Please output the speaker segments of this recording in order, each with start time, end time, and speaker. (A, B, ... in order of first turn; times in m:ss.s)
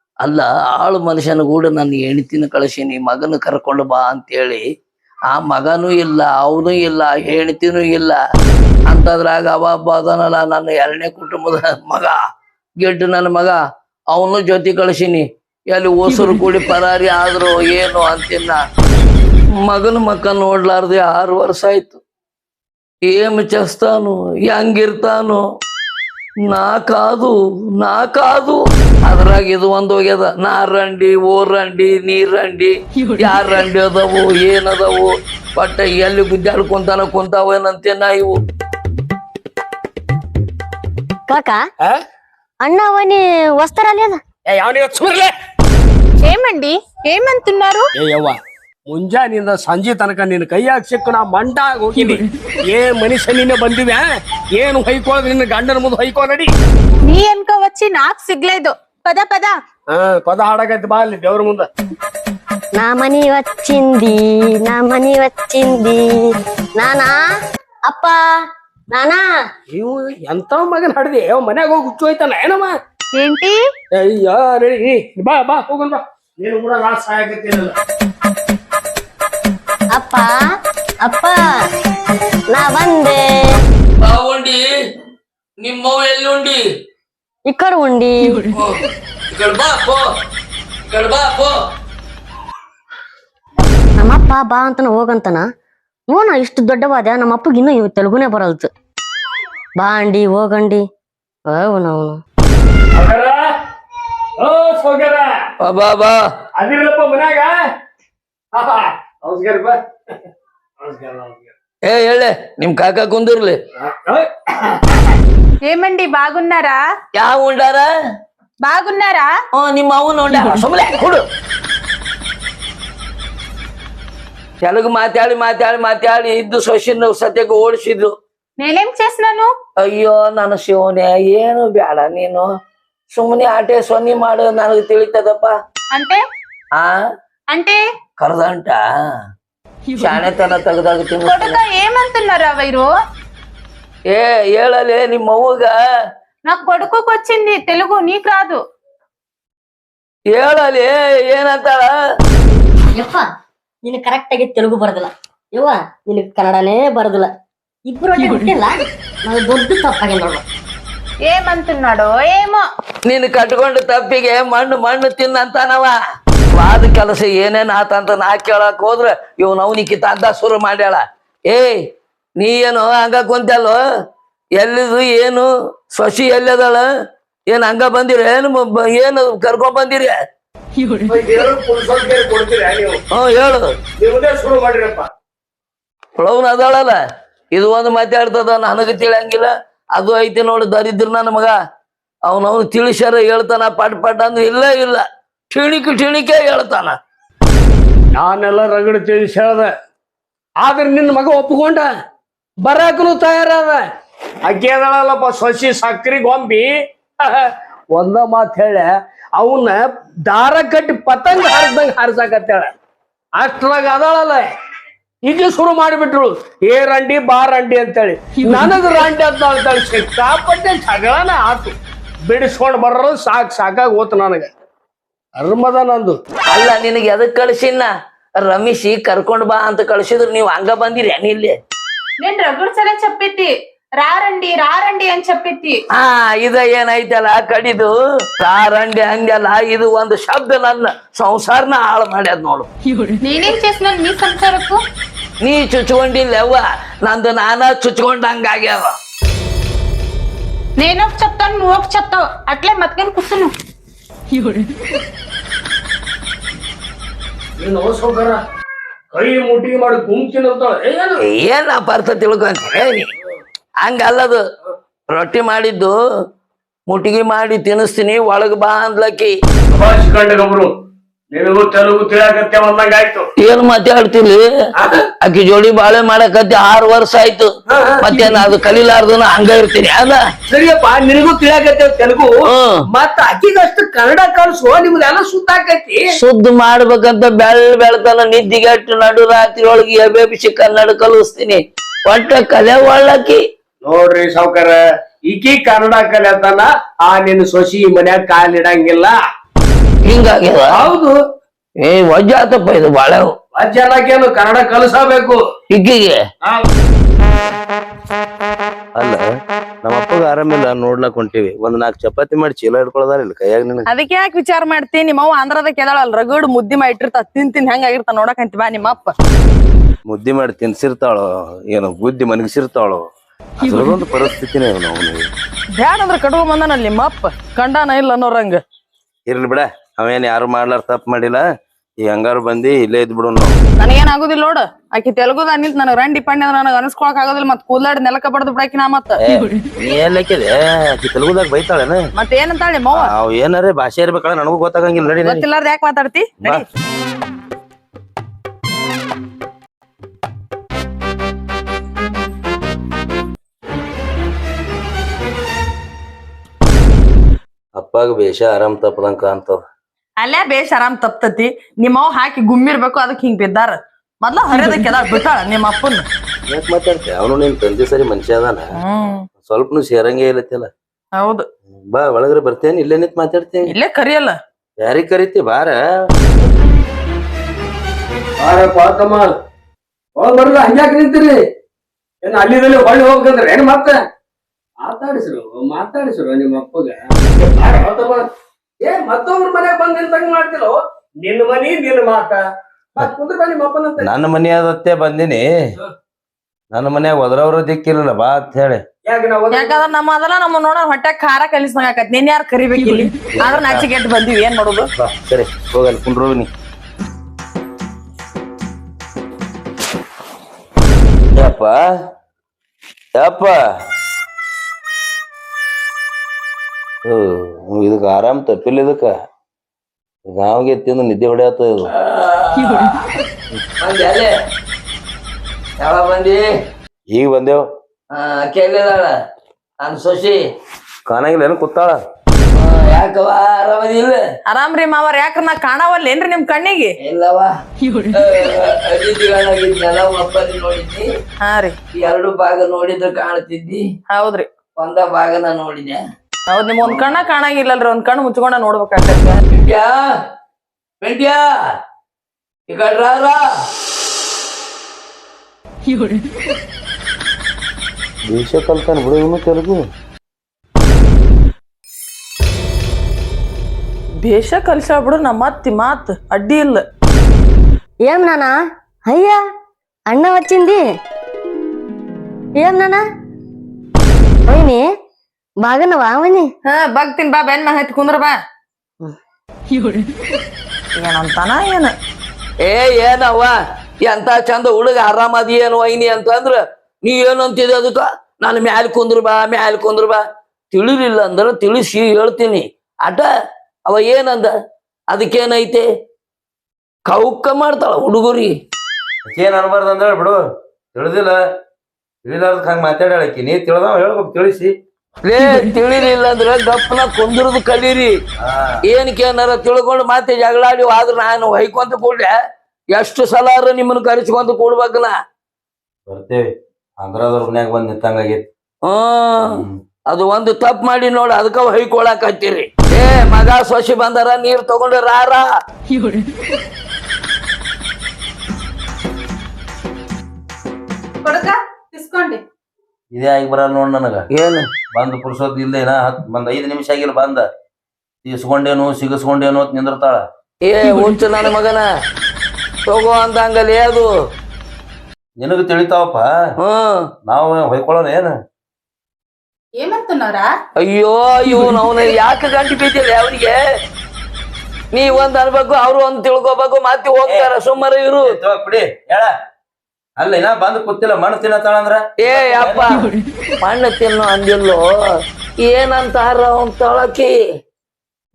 0:00.2-0:04.6 A
0:05.3-0:08.2 A
0:08.9-0:12.2 A
0:12.8-0:13.6 A
0:14.1-0:18.6 A
0:19.6-0:22.0 A
0:23.1-0:25.4 A
0:26.5-0:38.4 A
0:41.3-0:41.6 B
0:42.6-0:44.2 B
0:44.5-0:45.3 C
0:46.2-0:47.8 D
0:48.0-0:48.4 C
0:48.9-0:56.5 C
0:57.0-0:59.6 D
0:59.9-1:01.7 C
1:02.8-1:06.2 B
1:06.8-1:07.2 B
1:07.9-1:08.2 B
1:08.9-1:09.2 B
1:09.7-1:12.7 C
1:13.1-1:13.6 D
1:13.9-1:17.7 C
1:20.0-1:20.4 B
1:21.0-1:21.4 B
1:22.5-1:23.6 B
1:24.0-1:24.7 A
1:25.6-1:26.6 A
1:27.5-1:28.5 B
1:29.3-1:30.0 A
1:30.8-1:31.5 A
1:34.0-1:35.5 B
1:36.1-1:38.7 B
1:39.8-1:40.8 B
1:41.5-1:42.2 B
1:42.9-1:43.5 C
1:44.4-1:45.3 C
1:45.6-1:46.2 A
1:46.6-1:47.5 C
1:48.5-1:50.1 C
1:50.8-1:51.5 C
1:51.8-1:53.6 A
1:53.8-1:55.1 C
1:55.6-1:56.8 D
1:57.1-1:57.9 A
1:58.6-1:59.3 D
1:59.5-2:01.2 A
2:04.6-2:08.1 A
2:08.6-2:09.5 D
2:09.8-2:12.4 A
2:13.1-2:15.5 A
2:15.9-2:16.2 D
2:17.5-2:17.8 D
2:18.2-2:18.8 A
2:20.0-2:21.6 A
2:21.2-2:22.9 D
2:24.1-2:25.7 A
2:26.4-2:28.6 D
2:30.3-2:31.9 A
2:32.9-2:33.2 B
2:33.8-2:37.3 B
2:37.9-2:40.4 B
2:41.2-2:42.6 D
2:43.0-2:46.0 A
2:46.5-2:51.8 A
2:52.4-2:53.8 A
2:54.6-2:56.8 A
2:57.5-3:00.1 A
3:01.1-3:03.0 C
3:03.1-3:03.7 A
3:04.0-3:05.1 C
3:06.2-3:07.0 A
3:07.5-3:11.5 A
3:12.2-3:16.9 A
3:18.2-3:19.7 C
3:20.6-3:21.9 C
3:22.6-3:23.8 C
3:24.4-3:32.7 C
3:33.4-3:34.5 C
3:35.2-3:41.7 C
3:42.3-3:44.5 C
3:45.4-3:46.2 C
3:46.5-3:47.9 A
3:48.4-3:51.6 A
3:52.2-3:55.8 D
3:55.9-4:02.7 A
4:03.2-4:04.8 D
4:05.4-4:08.9 A
4:10.8-4:13.5 D
4:17.6-4:18.4 C
4:19.1-4:21.2 C
4:21.2-4:23.1 A
4:23.8-4:24.4 A
4:25.1-4:25.9 A
4:26.9-4:29.3 A
4:29.7-4:30.7 C
4:31.3-4:33.2 C
4:33.4-4:34.4 A
4:34.8-4:35.0 C
4:35.2-4:40.2 A
4:37.7-4:38.1 C
4:40.5-4:42.3 C
4:42.5-4:42.7 A
4:42.9-4:46.0 C
4:46.1-4:53.4 A
4:53.8-4:59.2 C
5:00.0-5:00.9 A
5:00.7-5:01.2 C
5:01.8-5:03.3 A
5:03.5-5:05.4 C
5:05.7-5:06.2 A
5:09.0-5:09.2 E
5:09.8-5:13.8 E
5:13.9-5:19.1 F
5:20.1-5:25.3 E
5:25.8-5:28.6 F
5:29.2-5:31.4 E
5:32.0-5:33.6 E
5:33.8-5:39.2 F
5:39.2-5:42.0 E
5:42.2-5:43.1 F
5:42.9-5:45.4 E
5:45.2-5:46.6 F
5:57.8-5:59.6 E
6:00.2-6:06.0 F
6:06.5-6:08.7 E
6:08.8-6:09.3 F
6:09.4-6:10.7 E
6:11.2-6:11.4 F
6:11.7-6:13.7 E
6:13.7-6:14.4 F
6:14.8-6:15.8 E
6:18.4-6:19.3 C
6:20.2-6:21.3 C
6:22.2-6:24.0 C
6:24.8-6:28.3 C
6:28.8-6:32.4 C
6:33.0-6:34.1 C
6:34.0-6:35.4 E
6:36.7-6:38.8 E
6:39.0-6:39.8 C
6:39.5-6:44.9 F
6:43.4-6:43.8 E
6:45.0-6:46.5 E
6:51.3-6:51.8 E
6:53.1-6:53.6 E
6:57.0-6:59.2 E
7:00.3-7:01.9 E
7:01.9-7:03.1 A
7:03.8-7:04.3 A
7:05.8-7:06.4 A
7:07.1-7:07.6 E
7:08.1-7:09.1 A
7:09.8-7:10.4 A
7:11.1-7:12.0 E
7:12.5-7:14.2 A
7:14.5-7:16.9 F
7:17.0-7:17.5 A
7:18.1-7:21.0 A
7:21.4-7:21.7 F
7:21.9-7:23.8 A
7:24.1-7:24.5 F
7:24.8-7:26.0 A
7:26.5-7:29.4 F
7:29.5-7:30.0 A
7:31.0-7:31.4 A
7:32.7-7:33.4 A
7:38.3-7:39.8 E
7:44.2-7:46.8 F
7:48.0-7:48.5 B
7:49.1-7:49.4 B
7:50.1-7:50.8 B
7:52.6-7:53.0 B
7:54.5-7:54.8 B
7:55.6-7:56.5 B
7:56.6-7:58.4 F
8:01.0-8:01.9 F
8:02.6-8:03.5 A
8:04.0-8:13.3 A
8:13.8-8:14.5 A
8:15.1-8:15.8 A
8:17.1-8:18.5 A
8:19.3-8:20.4 E
8:20.9-8:21.4 E
8:22.2-8:24.7 E
8:25.2-8:28.1 A
8:28.4-8:28.8 E
8:28.8-8:32.3 A
8:32.9-8:35.1 A
8:36.1-8:38.4 E
8:38.8-8:39.6 A
8:39.4-8:39.7 E
8:40.1-8:45.4 A
8:51.2-8:52.4 D
8:53.1-8:54.2 E
8:54.3-8:54.7 A
8:54.9-8:57.4 E
8:58.2-9:00.2 E
9:00.6-9:01.8 A
9:02.9-9:04.1 A
9:05.4-9:06.3 E
9:06.6-9:07.0 A
9:07.3-9:08.3 E
9:09.8-9:10.5 D
9:10.8-9:13.6 A
9:14.9-9:18.3 A
9:18.2-9:19.3 E
9:20.2-9:22.9 E
9:22.2-9:24.8 A
9:25.6-9:27.3 A